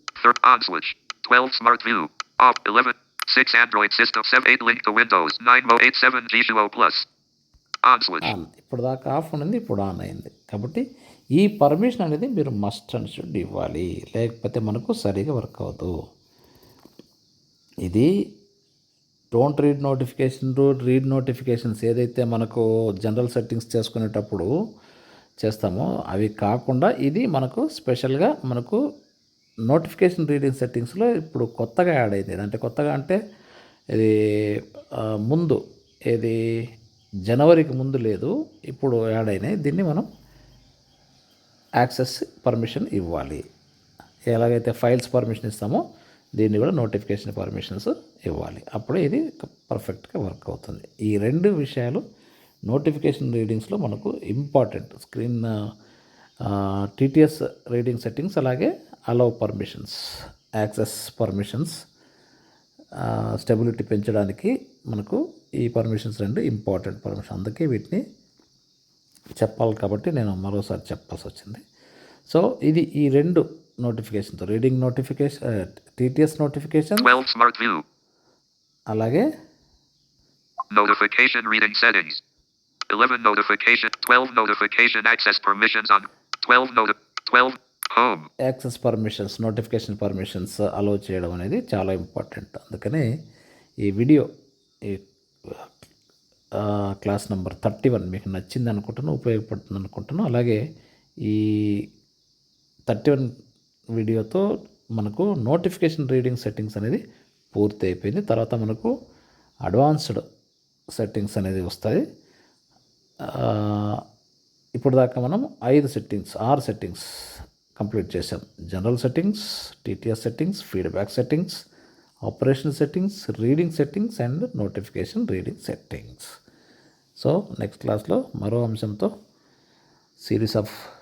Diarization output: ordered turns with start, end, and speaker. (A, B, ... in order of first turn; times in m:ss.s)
0:00.2-0:07.0 A
0:07.8-0:08.3 A
0:08.2-0:10.8 B
0:11.4-0:15.9 B
0:19.3-0:24.5 B
0:25.4-0:28.8 B
0:29.7-0:33.2 B
0:35.3-0:35.6 B
0:36.1-0:36.4 B
0:37.3-0:40.1 B
0:41.8-0:43.4 B
0:44.3-0:45.8 B
0:46.4-0:52.0 B
0:52.7-0:55.5 B
0:56.4-1:00.0 B
1:00.6-1:01.7 B
1:03.0-1:08.0 B
1:09.4-1:11.6 B
1:12.3-1:15.4 B
1:15.9-1:17.1 B
1:17.0-1:17.8 A
1:18.9-1:19.3 B
1:20.7-1:22.2 A
1:22.9-1:28.3 A
1:28.5-1:33.0 B
1:33.9-1:34.3 B
1:34.9-1:35.7 B
1:36.6-1:40.6 B
1:41.3-1:41.8 B
1:42.9-1:43.3 B
1:44.0-1:44.4 B
1:45.0-1:47.0 B
1:47.5-1:48.9 B
1:49.6-1:50.2 B
1:51.0-1:52.0 B
1:53.3-1:54.0 B
1:54.8-1:57.0 B
1:57.8-2:01.6 B
2:02.3-2:06.3 B
2:07.2-2:09.1 B
2:10.2-2:10.7 B